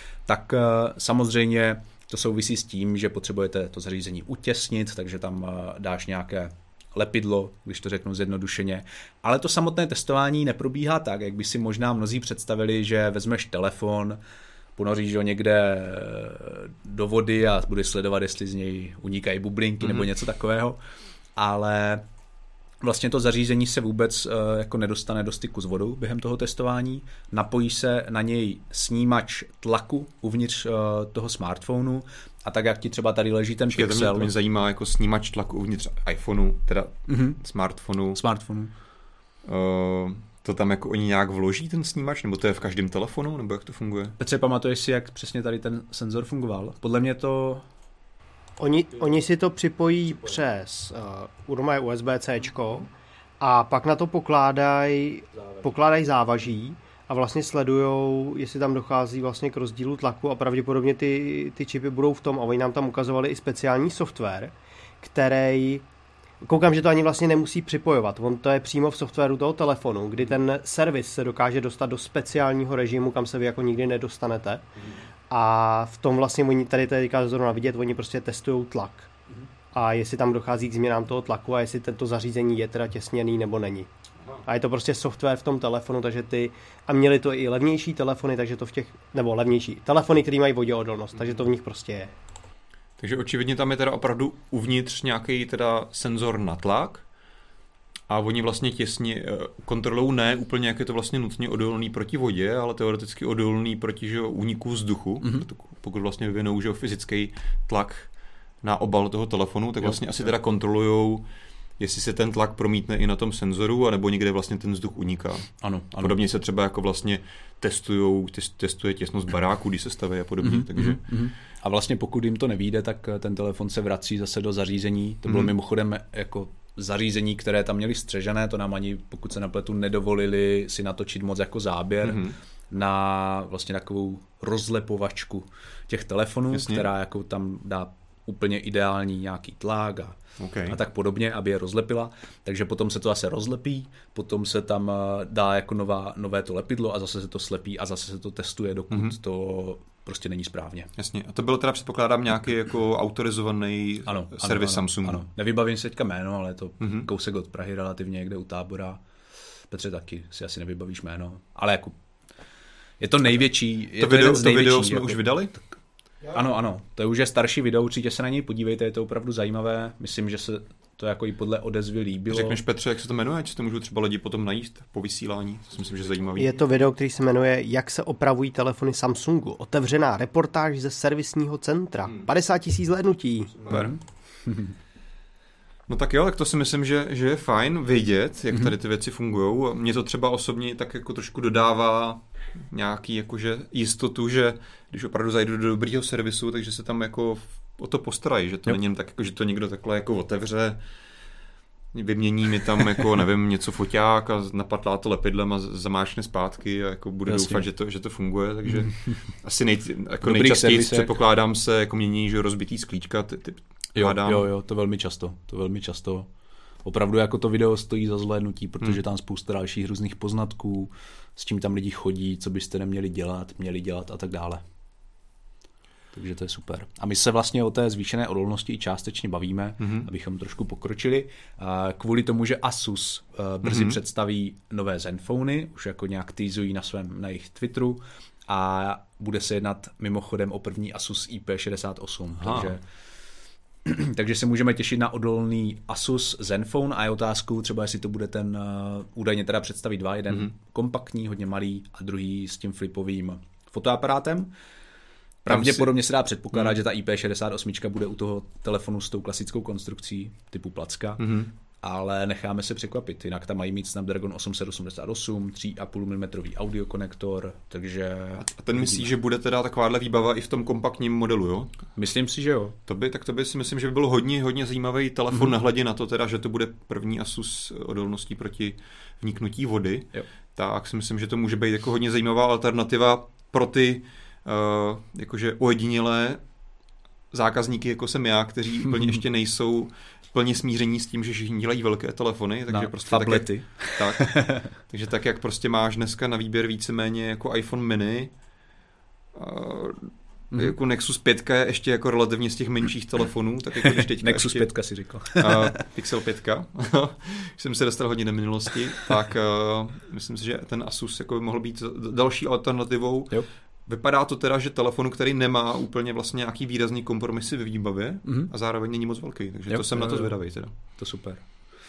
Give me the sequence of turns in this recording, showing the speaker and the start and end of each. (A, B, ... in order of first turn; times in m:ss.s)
0:00.3-0:14.2 A
0:14.8-0:20.8 A
0:19.8-0:20.1 B
0:21.4-0:22.0 A
0:22.8-0:34.3 A
0:33.7-0:38.2 B
0:37.1-0:37.4 A
0:38.1-0:38.7 A
0:39.4-0:44.2 B
0:44.2-0:47.6 A
0:48.6-0:52.9 C
0:53.4-1:05.8 C
1:06.4-1:14.6 C
1:15.3-1:19.1 C
1:19.7-1:23.9 C
1:24.4-1:32.1 C
1:33.0-1:37.0 B
1:38.1-1:48.1 B
1:48.6-1:51.2 B
1:51.8-2:01.0 B
1:55.6-1:56.2 A
2:00.4-2:20.2 A
2:05.3-2:05.5 B
2:12.0-2:12.4 B
2:16.5-2:16.9 B
2:20.4-2:20.8 B
2:20.7-2:30.9 A
2:31.0-2:35.2 B
2:34.0-2:39.0 A
2:36.8-2:37.1 B
2:39.7-2:42.0 A
2:43.0-2:45.6 A
2:44.0-2:45.5 B
2:46.3-2:52.6 A
2:52.3-2:56.5 B
2:56.4-3:03.8 C
3:03.6-3:04.0 B
3:03.7-3:04.7 A
3:05.9-3:20.8 B
3:21.9-3:34.4 B
3:27.3-3:27.6 A
3:30.2-3:31.1 A
3:33.9-3:36.3 A
3:36.8-3:44.6 A
3:46.1-4:02.8 A
3:49.8-3:50.1 B
3:53.6-3:54.0 B
4:02.4-4:02.8 B
4:03.8-4:14.5 A
4:15.4-4:29.1 A
4:15.5-4:15.9 B
4:21.2-4:21.5 B
4:28.4-4:31.8 B
4:32.0-4:32.8 A
4:32.9-4:46.4 B
4:47.3-4:58.3 B
4:52.7-4:54.7 A
4:59.3-5:20.7 B
5:04.0-5:05.8 A
5:18.2-5:18.5 A
5:19.7-5:20.3 A
5:20.9-5:21.4 A